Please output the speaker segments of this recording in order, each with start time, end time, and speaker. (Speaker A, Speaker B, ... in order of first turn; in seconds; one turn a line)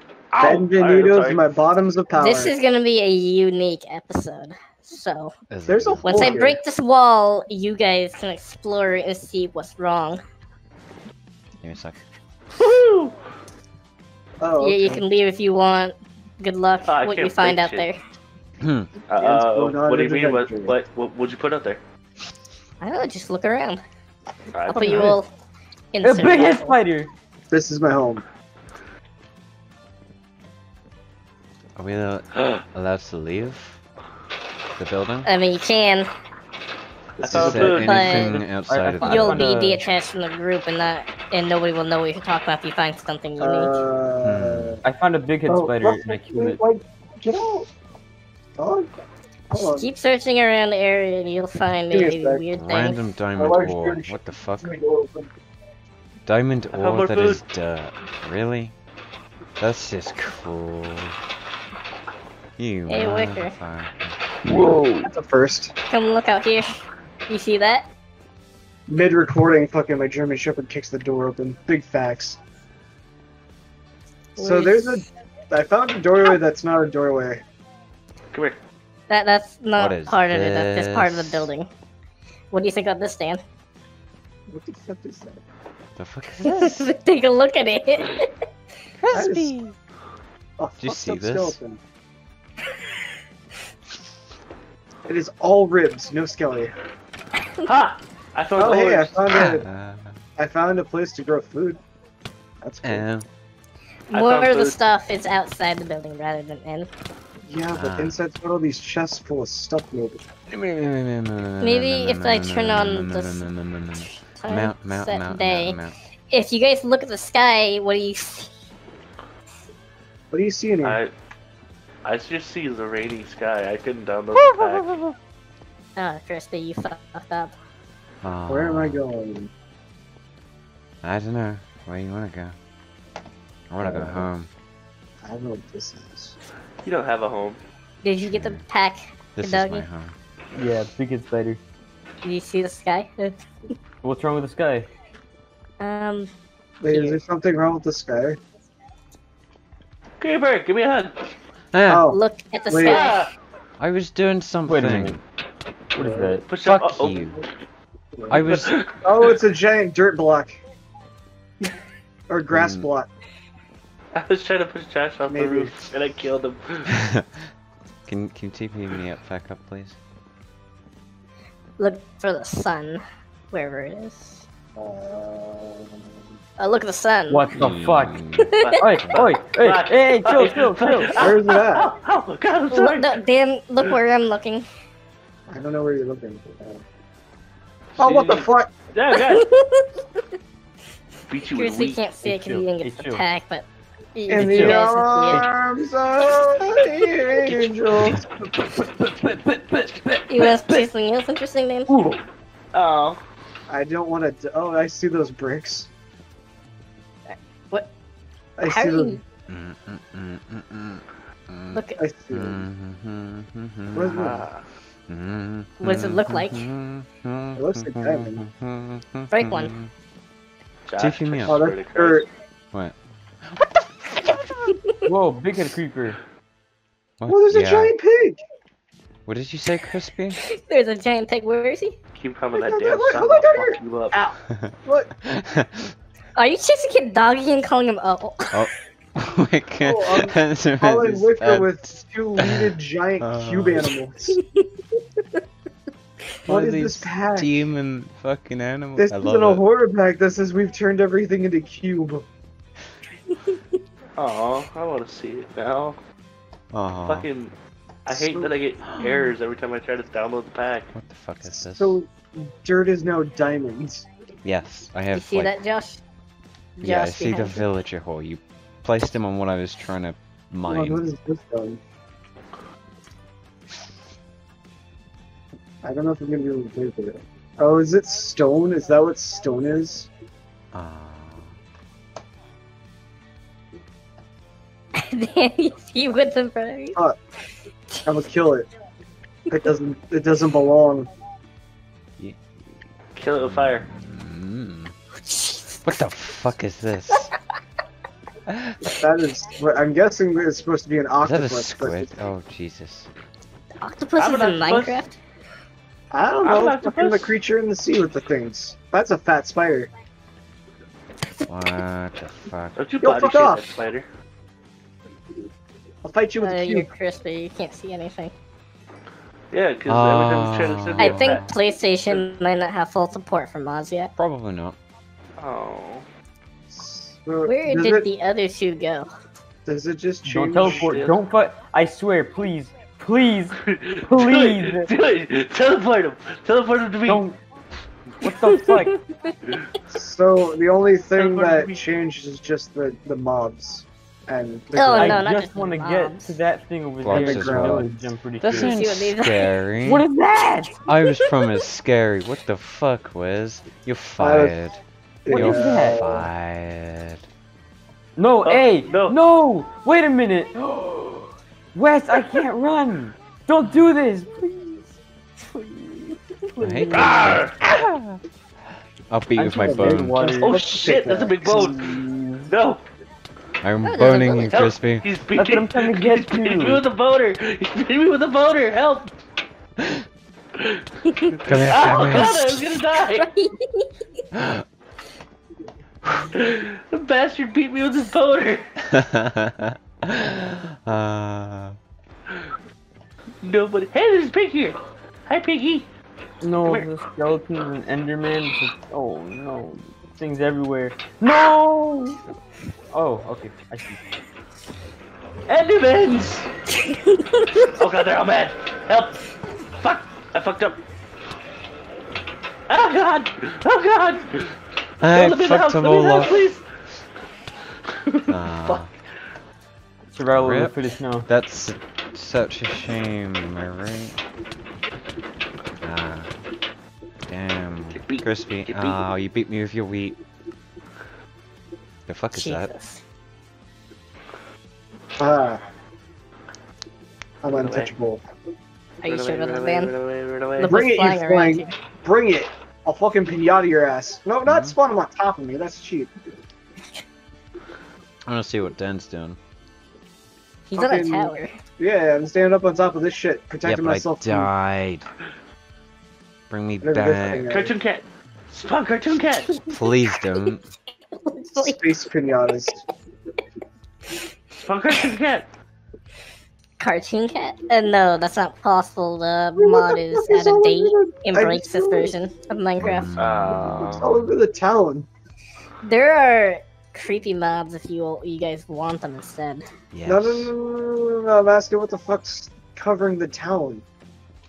Speaker A: 0.3-1.5
Speaker B: 0.4-2.5
Speaker C: 2.1-5.3
Speaker D: 5.5-6.4
Speaker B: 5.7-6.6
Speaker C: 6.0-10.2
Speaker D: 11.6-12.0
Speaker A: 12.6-13.1
Speaker B: 14.4-15.0
Speaker C: 14.6-18.0
Speaker A: 16.9-17.9
Speaker D: 18.6-18.9
Speaker A: 19.1-21.8
Speaker B: 19.2-20.8
Speaker C: 22.8-23.8
Speaker A: 24.5-25.2
Speaker C: 24.7-25.3
Speaker E: 24.8-25.2
Speaker C: 25.9-26.7
Speaker E: 26.0-27.1
Speaker B: 27.5-28.2
Speaker D: 31.8-33.8
Speaker D: 34.8-35.3
Speaker C: 35.2-36.1
Speaker A: 37.2-38.0
Speaker E: 37.2-39.9
Speaker D: 37.2-39.5
Speaker C: 37.8-38.4
Speaker C: 39.0-43.8
Speaker B: 43.4-44.8
Speaker D: 44.2-44.8
Speaker E: 44.8-46.6
Speaker B: 45.5-47.7
Speaker B: 48.6-48.9
Speaker B: 49.5-49.9
Speaker C: 49.5-53.0
Speaker B: 51.9-52.4
Speaker D: 52.5-54.7
Speaker B: 53.4-55.3
Speaker D: 56.2-58.7
Speaker A: 56.7-57.4
Speaker D: 59.6-61.2
Speaker D: 62.6-64.2
Speaker C: 62.9-63.5
Speaker E: 64.5-65.1
Speaker B: 65.0-65.7
Speaker C: 65.9-66.7
Speaker C: 67.3-67.9
Speaker B: 68.9-72.4
Speaker C: 74.4-75.0
Speaker B: 74.4-77.4
Speaker A: 78.3-78.6
Speaker C: 79.1-81.7
Speaker D: 79.8-81.5
Speaker C: 82.5-83.4
Speaker B: 84.5-85.4
Speaker D: 86.0-86.9
Speaker C: 86.4-88.3
Speaker D: 89.0-89.8
Speaker B: 89.1-89.5
Speaker B: 90.6-91.8
Speaker D: 90.8-91.6
Speaker B: 95.1-96.7
Speaker A: 97.6-99.2
Speaker B: 98.6-99.7
Speaker D: 99.3-100.2
Speaker B: 100.4-101.8
Speaker B: 102.6-103.0
Speaker D: 102.8-103.3
Speaker A: 104.1-104.8
Speaker C: 104.1-106.9
Speaker B: 107.4-110.2
Speaker D: 107.7-108.2
Speaker D: 110.5-116.0
Speaker C: 111.6-113.5
Speaker C: 114.3-115.8
Speaker C: 116.3-118.5
Speaker B: 120.3-121.0
Speaker A: 120.8-121.1
Speaker A: 122.0-125.0
Speaker D: 124.5-125.1
Speaker C: 126.0-127.5
Speaker D: 128.2-129.0
Speaker B: 128.5-129.5
Speaker D: 131.0-132.5
Speaker D: 133.7-134.5
Speaker B: 133.8-134.3
Speaker B: 135.2-136.3
Speaker A: 136.8-137.6
Speaker C: 138.0-139.8
Speaker D: 138.2-138.6
Speaker D: 139.4-140.2
Speaker E: 140.5-141.6
Speaker C: 142.2-143.3
Speaker E: 144.0-144.9
Speaker C: 145.8-146.3
Speaker B: 146.8-148.4
Speaker C: 146.8-147.2
Speaker A: 150.2-151.2
Speaker D: 151.7-152.0
Speaker B: 151.9-153.0
Speaker C: 152.1-153.2
Speaker A: 152.8-153.3
Speaker D: 153.8-155.2
Speaker E: 154.7-155.2
Speaker E: 155.9-156.4
Speaker B: 156.0-156.4
Speaker A: 156.5-157.3
Speaker D: 156.6-157.4
Speaker B: 158.1-158.4
Speaker D: 158.3-158.8
Speaker A: 158.5-158.9
Speaker B: 159.0-160.6
Speaker B: 162.3-163.1
Speaker D: 162.5-162.9
Speaker A: 164.1-166.9
Speaker B: 165.3-165.9
Speaker D: 166.9-167.2
Speaker D: 168.1-170.0
Speaker C: 171.8-174.4
Speaker B: 174.8-176.0
Speaker C: 176.6-177.5
Speaker E: 177.3-178.2
Speaker D: 177.5-179.2
Speaker A: 178.6-183.2
Speaker E: 178.8-181.2
Speaker B: 181.1-181.9
Speaker C: 182.7-184.6
Speaker B: 185.5-186.8
Speaker A: 188.0-189.4
Speaker B: 188.0-188.7
Speaker C: 189.3-190.0
Speaker A: 191.3-192.0
Speaker C: 191.5-195.4
Speaker E: 192.2-193.2
Speaker B: 194.3-198.5
Speaker E: 194.3-195.5
Speaker E: 198.6-200.8
Speaker C: 200.3-201.9
Speaker E: 201.9-202.2
Speaker A: 202.7-203.2
Speaker B: 203.7-205.9
Speaker C: 207.3-207.9
Speaker B: 208.6-209.2
Speaker C: 208.6-209.2
Speaker D: 209.5-214.2
Speaker C: 211.7-212.0
Speaker B: 212.0-212.6
Speaker B: 213.9-214.4
Speaker A: 214.0-214.6
Speaker D: 215.1-219.9
Speaker C: 215.8-216.7
Speaker B: 217.6-218.4
Speaker C: 219.3-219.7
Speaker A: 220.9-222.2
Speaker D: 221.0-221.6
Speaker B: 221.4-222.3
Speaker D: 223.5-224.7
Speaker E: 225.1-226.2
Speaker D: 227.2-227.9
Speaker B: 227.3-228.4
Speaker D: 229.2-230.4
Speaker C: 230.4-231.9
Speaker A: 232.1-234.2
Speaker B: 232.5-235.1
Speaker D: 234.6-235.9
Speaker C: 236.3-238.5
Speaker D: 238.5-243.9
Speaker B: 239.8-244.4
Speaker C: 244.3-244.7
Speaker B: 246.5-247.7
Speaker D: 246.5-249.6
Speaker B: 249.0-252.2
Speaker A: 254.2-256.0
Speaker D: 256.7-257.3
Speaker A: 257.1-257.5
Speaker A: 258.1-260.9
Speaker B: 258.1-258.6
Speaker D: 258.9-259.3
Speaker D: 260.9-262.0
Speaker B: 261.4-264.1
Speaker D: 264.4-265.5
Speaker C: 265.1-266.0
Speaker C: 266.8-267.7
Speaker D: 266.8-271.0
Speaker B: 270.7-271.8
Speaker B: 275.8-280.1
Speaker D: 280.7-281.6
Speaker C: 285.0-287.0
Speaker B: 288.1-288.7
Speaker B: 289.5-291.1
Speaker A: 293.1-293.9
Speaker D: 293.4-294.9
Speaker C: 295.2-295.8
Speaker D: 295.8-297.3
Speaker D: 298.5-298.8
Speaker B: 298.9-302.1
Speaker D: 301.2-303.1
Speaker C: 303.8-305.2
Speaker A: 304.2-305.0
Speaker B: 306.1-309.9
Speaker A: 306.4-307.3
Speaker D: 311.5-312.8
Speaker A: 312.8-314.1
Speaker B: 313.0-313.7
Speaker B: 316.0-316.9
Speaker C: 316.4-318.3
Speaker A: 319.5-321.4
Speaker D: 319.9-321.6
Speaker C: 321.0-324.1
Speaker D: 324.2-324.8
Speaker A: 325.4-326.0
Speaker B: 326.7-328.1
Speaker C: 327.4-329.1
Speaker B: 329.6-331.1
Speaker E: 330.2-334.9
Speaker A: 330.6-331.2
Speaker A: 333.6-337.2
Speaker E: 337.1-337.4
Speaker E: 338.2-338.9
Speaker C: 338.5-339.0
Speaker B: 339.9-345.2
Speaker A: 341.1-341.8
Speaker C: 344.7-346.4
Speaker E: 344.9-348.7
Speaker D: 347.0-347.9
Speaker B: 347.1-348.1
Speaker D: 348.4-350.1
Speaker C: 348.5-349.5
Speaker E: 349.9-350.8
Speaker D: 350.9-357.2
Speaker B: 354.2-354.6
Speaker B: 355.2-356.1
Speaker E: 355.3-356.3
Speaker E: 358.1-360.6
Speaker A: 358.4-359.2
Speaker E: 361.7-364.9
Speaker E: 365.5-367.5
Speaker D: 366.6-368.2
Speaker A: 366.9-367.6
Speaker D: 369.1-370.2
Speaker E: 369.4-370.6
Speaker B: 369.6-371.7
Speaker A: 370.4-372.8
Speaker E: 371.4-372.5
Speaker D: 373.6-375.1
Speaker C: 373.8-374.7
Speaker A: 374.4-379.1
Speaker E: 375.3-376.8
Speaker C: 381.2-383.9
Speaker D: 381.4-382.4
Speaker A: 381.5-383.3
Speaker D: 384.3-384.6
Speaker A: 386.4-388.6
Speaker D: 388.9-391.8
Speaker A: 393.4-395.9
Speaker E: 396.4-402.2
Speaker A: 396.6-396.9
Speaker E: 402.9-404.0
Speaker A: 405.5-406.5
Speaker C: 406.8-407.7
Speaker A: 407.7-409.2
Speaker A: 409.8-410.8
Speaker A: 412.7-414.5
Speaker D: 415.0-416.5
Speaker A: 415.1-416.6
Speaker A: 418.1-418.9
Speaker D: 418.3-418.9
Speaker E: 420.1-421.3
Speaker D: 420.3-424.2
Speaker D: 425.8-426.3
Speaker D: 427.3-430.2
Speaker A: 427.9-429.0
Speaker D: 432.1-432.7
Speaker C: 432.3-433.0
Speaker B: 435.2-435.6
Speaker B: 437.4-438.2
Speaker A: 437.6-437.9
Speaker C: 439.0-439.9
Speaker A: 439.0-440.8
Speaker C: 440.6-441.7
Speaker B: 440.6-446.1
Speaker D: 444.4-444.7
Speaker D: 448.2-449.4
Speaker C: 450.7-451.5
Speaker B: 450.7-454.5
Speaker D: 453.6-455.1
Speaker D: 456.5-457.5
Speaker B: 456.8-457.7
Speaker A: 457.4-459.5
Speaker D: 459.7-460.7
Speaker C: 461.2-461.9
Speaker B: 461.6-462.8
Speaker A: 464.5-465.5
Speaker C: 466.8-473.2
Speaker B: 469.6-472.1
Speaker D: 472.8-474.3
Speaker A: 473.2-474.1
Speaker B: 473.5-475.1
Speaker C: 475.8-479.6
Speaker D: 479.9-480.5
Speaker B: 480.0-483.8